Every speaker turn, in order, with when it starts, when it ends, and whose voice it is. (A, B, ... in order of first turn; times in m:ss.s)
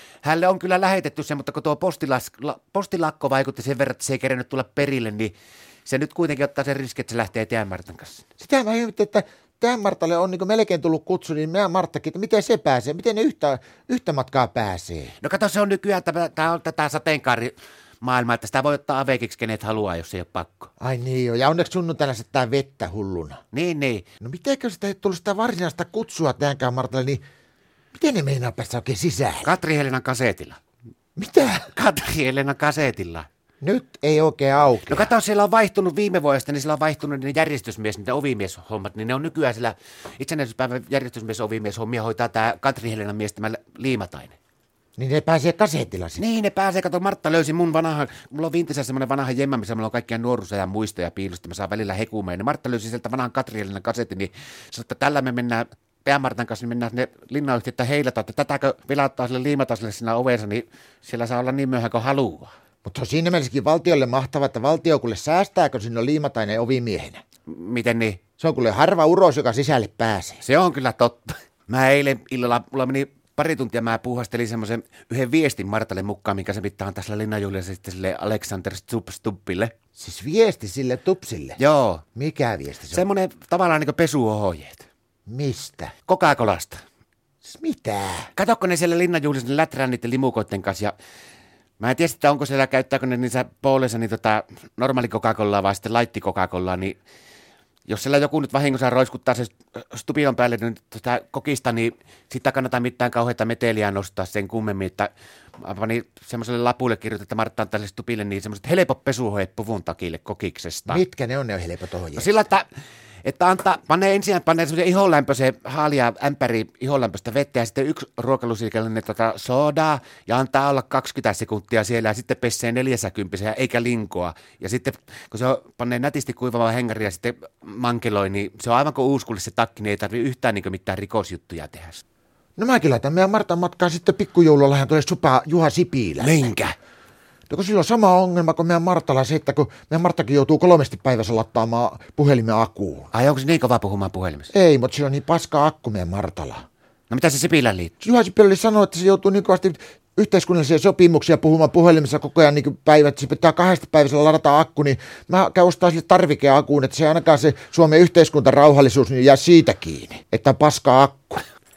0:00.2-0:05.3 A
0:05.9-0:08.3 A
0:08.4-0:15.2 B
0:15.2-0:20.7 A
0:20.8-0:23.4 B
0:23.5-0:24.1 A
0:24.2-0:27.2 B
0:27.9-0:29.5 B
0:29.4-0:30.6 A
0:31.2-0:31.7 B
0:31.5-0:33.3 A
0:33.6-0:35.1 B
0:34.9-0:44.4 A
0:45.0-0:46.2 B
0:46.2-1:02.5 A
1:02.8-1:07.2 B
1:07.5-1:08.2 A
1:08.4-1:10.4 B
1:10.4-1:19.7 A
1:20.0-1:21.6 B
1:21.6-1:22.0 A
1:22.2-1:23.1 B
1:22.9-1:24.9 A
1:25.3-1:25.9 B
1:26.0-1:26.8 A
1:27.4-1:28.3 B
1:28.4-1:31.0 A
1:31.8-1:37.0 A
1:37.9-1:51.0 A
1:50.9-1:52.4 B
1:52.2-1:52.7 A
1:53.2-2:12.0 A
2:12.6-2:16.6 B
2:16.2-2:16.8 A
2:17.5-2:23.1 B
2:23.1-2:24.5 A
2:24.5-2:26.6 B
2:27.1-2:28.0 A
2:28.0-2:41.4 B